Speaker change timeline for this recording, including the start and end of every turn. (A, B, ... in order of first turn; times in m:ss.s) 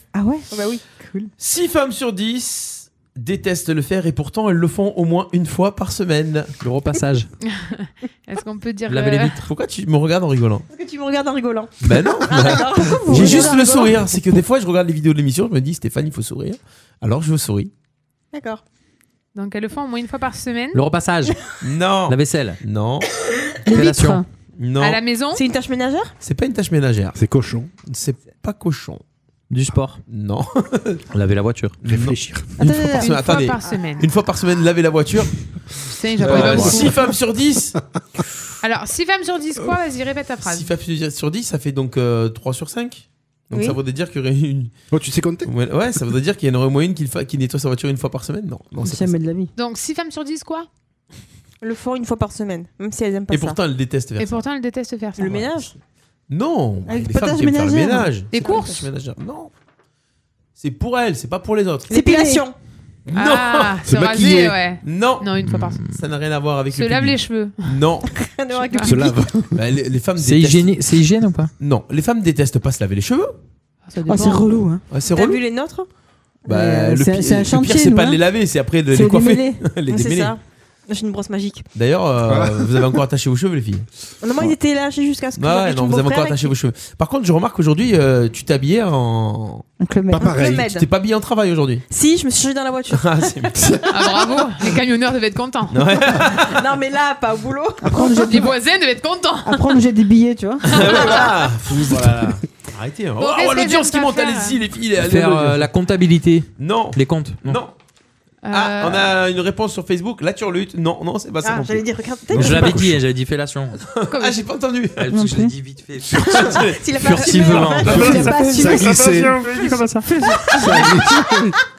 0:00.1-0:01.3 A
0:00.5-0:00.8 B
0:01.4-0:06.5 C
0:06.6-0:07.3 D
0:07.4-0:09.5 E
0:08.9-0:09.4 D
0:09.4-0:10.6 C
0:10.7-0:13.8 B
0:11.8-0:17.7 C
0:12.5-0:14.0 A
0:18.3-0:18.6 B
0:19.3-0:20.8 E
0:20.7-0:21.4 D
0:21.6-0:23.1 C
0:22.1-0:22.6 D
0:23.6-0:24.2 D
0:23.6-0:24.2 A
0:24.6-0:25.0 C
0:24.8-0:25.4 E
0:25.3-0:26.1 B
0:26.2-0:27.2 C
0:27.2-0:27.7 F
0:27.8-0:29.0 C
0:29.5-0:30.0 D
0:30.1-0:31.0 C
0:31.1-0:31.8 D
0:31.8-0:35.3 C
0:31.8-0:32.5 F
0:32.6-0:33.2 A
0:32.9-0:34.1 E
0:35.9-0:37.0 E
0:36.2-0:37.8 C
0:36.4-0:36.8 F
0:38.6-0:40.7 E
0:40.4-0:44.7 C
0:43.5-0:43.8 B
0:44.9-0:45.5 F
0:45.4-0:49.1 C
0:48.8-0:49.5 A
0:49.6-0:50.7 E
0:51.6-0:53.6 B
0:53.3-0:54.4 C
0:54.2-0:55.4 E
0:55.2-0:55.7 B
0:55.2-0:55.5 C
0:56.3-0:59.5 C
0:56.8-0:58.1 A
0:58.3-0:58.9 E
1:00.6-1:01.9 C
1:01.9-1:02.5 B
1:01.9-1:02.4 A
1:03.1-1:03.8 C
1:03.1-1:05.8 E
1:03.8-1:04.6 F
1:04.8-1:05.3 C
1:05.4-1:05.9 D
1:05.9-1:08.1 C
1:06.7-1:07.8 E
1:08.1-1:09.2 B
1:08.7-1:09.0 E
1:08.8-1:09.6 F
1:09.5-1:10.7 C
1:10.2-1:11.5 D
1:11.6-1:13.4 C
1:13.8-1:14.6 E
1:14.0-1:14.8 A
1:14.9-1:15.4 C
1:15.0-1:15.9 B
1:16.4-1:18.2 A
1:16.4-1:20.3 C
1:18.9-1:19.6 A
1:19.9-1:21.7 B
1:21.7-1:23.9 C
1:22.2-1:23.0 F
1:24.2-1:26.5 B
1:25.4-1:29.6 C
1:29.8-1:30.4 A
1:30.1-1:30.7 F
1:30.2-1:30.9 B
1:30.4-1:31.8 C
1:31.9-1:33.2 B
1:32.9-1:33.8 C
1:33.6-1:33.9 F
1:33.9-1:35.9 E
1:35.7-1:36.6 C
1:36.4-1:38.2 B
1:37.8-1:38.5 A
1:38.0-1:39.8 E
1:39.4-1:40.8 A
1:40.7-1:45.7 C
1:40.7-1:41.4 E
1:41.9-1:42.4 D
1:43.2-1:44.6 E
1:45.0-1:47.6 D
1:46.6-1:47.7 C
1:48.4-1:49.1 E
1:48.5-1:52.9 C
1:51.4-1:52.9 B
1:52.3-1:53.8 D
1:53.9-1:55.0 C
1:54.1-1:54.5 E
1:55.0-1:58.2 D
1:55.1-1:55.5 A
1:56.1-1:56.8 C
1:56.7-1:58.8 B
1:57.8-2:00.9 G
1:57.8-1:59.5 F
1:57.9-1:59.0 A
2:00.5-2:01.5 F